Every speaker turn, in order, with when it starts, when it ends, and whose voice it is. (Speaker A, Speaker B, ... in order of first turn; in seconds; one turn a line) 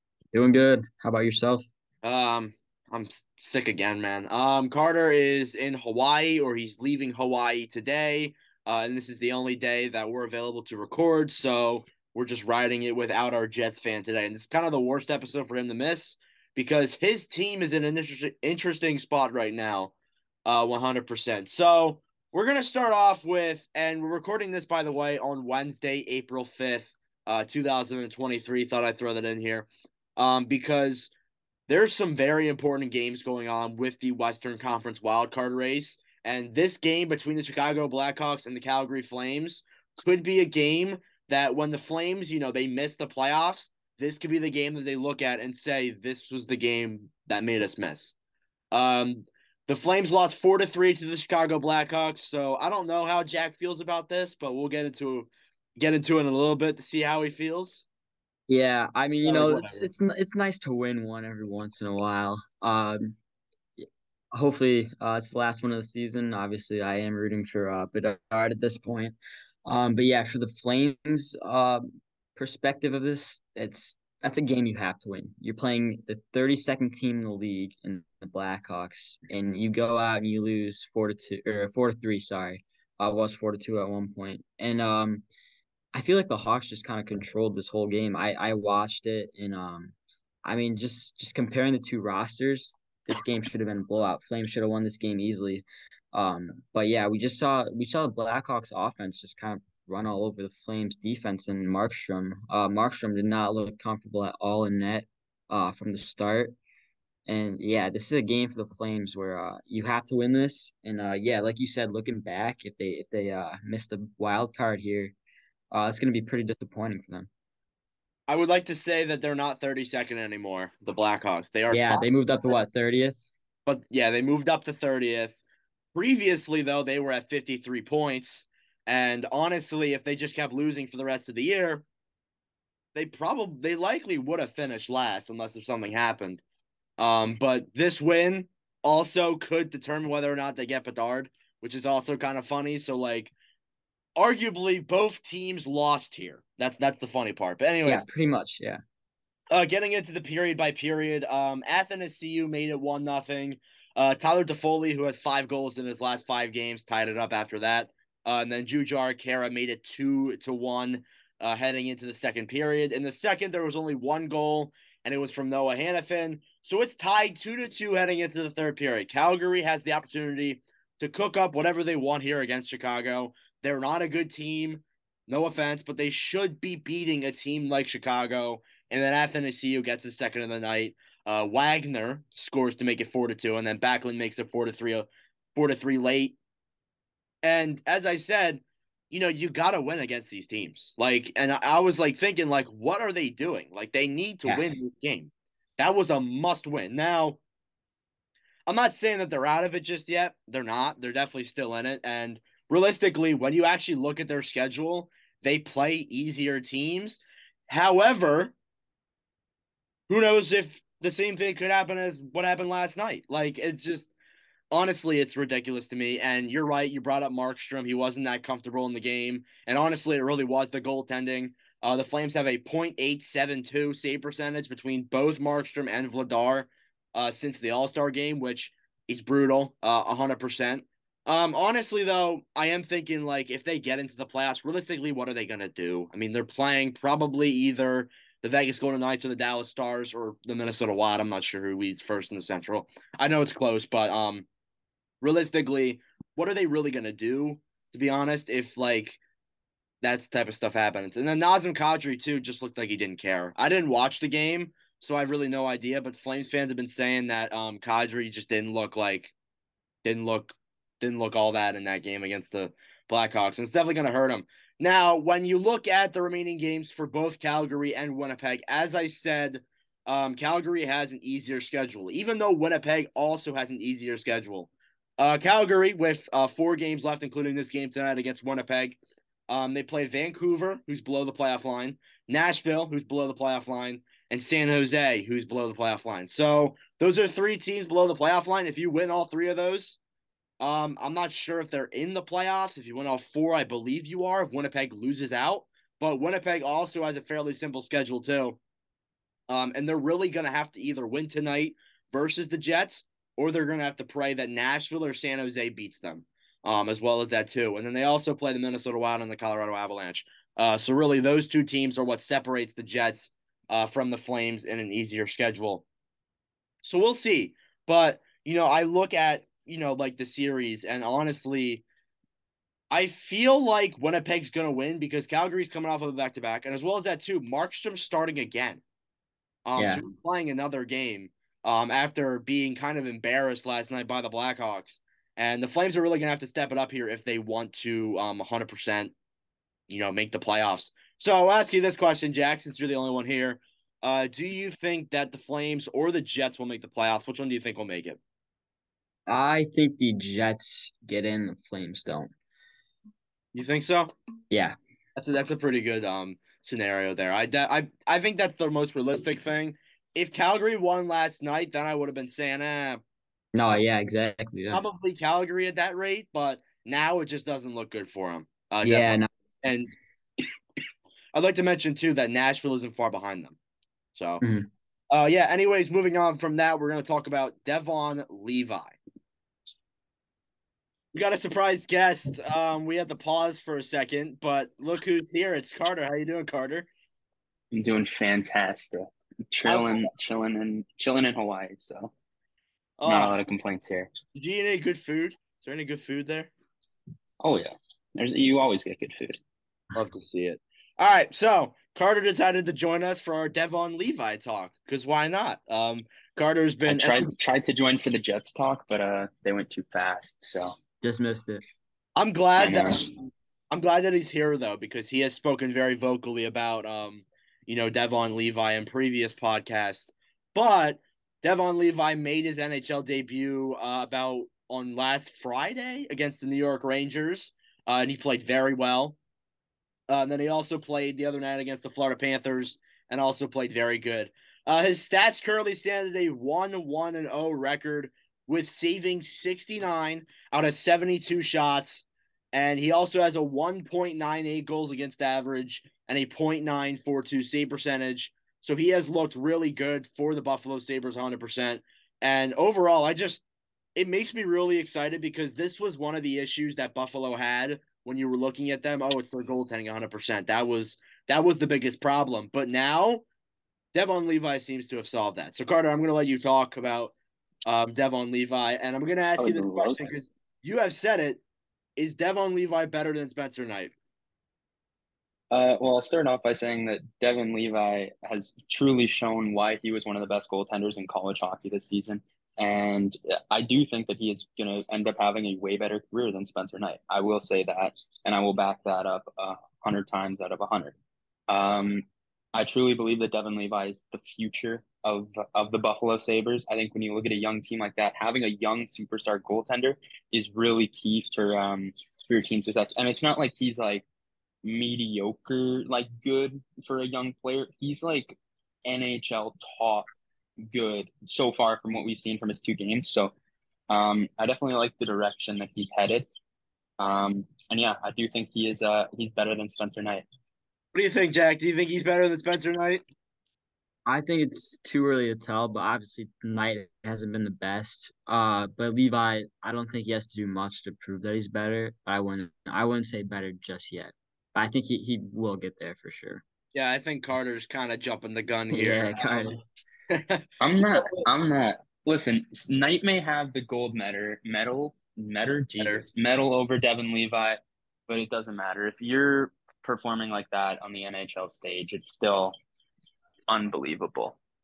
Speaker A: 0.3-1.6
Speaker B: 2.0-19.9
Speaker B: 20.5-31.1
Speaker B: 31.7-48.1
Speaker B: 48.7-57.9
Speaker A: 58.5-63.1
Speaker B: 59.2-59.9
Speaker A: 64.3-85.2
Speaker A: 85.9-106.6
Speaker A: 107.3-115.2
Speaker A: 115.7-117.3
Speaker B: 118.3-122.6
Speaker A: 121.7-123.3
Speaker B: 123.7-125.4
Speaker B: 125.9-131.8
Speaker B: 132.9-136.4
Speaker B: 137.0-143.3
Speaker B: 144.2-148.1
Speaker A: 147.8-148.8
Speaker B: 149.5-186.4
Speaker B: 187.4-197.4
Speaker B: 198.7-208.5
Speaker B: 210.1-214.1
Speaker B: 214.7-244.5
Speaker B: 245.2-249.2
Speaker B: 250.0-259.3
Speaker B: 260.0-290.0
Speaker B: 290.6-298.6
Speaker B: 299.5-315.9
Speaker B: 316.8-321.9
Speaker B: 322.9-328.8
Speaker B: 329.7-339.1
Speaker A: 329.8-330.0
Speaker B: 339.9-348.2
Speaker A: 349.3-352.3
Speaker B: 353.5-354.1
Speaker A: 354.5-354.8
Speaker B: 355.2-363.0
Speaker A: 363.5-364.8
Speaker B: 364.7-369.9
Speaker A: 368.8-369.3
Speaker B: 371.4-373.6
Speaker B: 374.1-374.4
Speaker A: 374.4-374.7
Speaker B: 375.1-379.0
Speaker B: 381.1-386.9
Speaker C: 387.7-392.1
Speaker B: 389.7-389.9
Speaker B: 393.0-393.4
Speaker C: 393.1-394.1
Speaker B: 394.3-396.5
Speaker C: 397.4-399.4
Speaker B: 399.9-407.3
Speaker C: 406.9-410.8
Speaker A: 411.0-411.6
Speaker B: 412.2-413.0
Speaker C: 412.6-413.1
Speaker B: 413.7-429.2
Speaker B: 430.1-453.4
Speaker B: 454.0-463.2
Speaker B: 463.9-467.1
Speaker B: 467.7-471.4
Speaker C: 469.4-470.1
Speaker B: 472.0-473.9
Speaker C: 475.5-491.0
Speaker C: 491.5-504.1
Speaker C: 504.6-510.1
Speaker C: 510.7-513.3
Speaker C: 513.9-516.3
Speaker C: 517.0-520.3
Speaker B: 520.9-523.0
Speaker A: 524.1-536.4
Speaker B: 536.7-539.6
Speaker A: 538.7-539.6
Speaker B: 540.1-540.4
Speaker C: 540.6-552.5
Speaker B: 541.0-541.2
Speaker B: 545.8-546.0
Speaker C: 553.5-554.4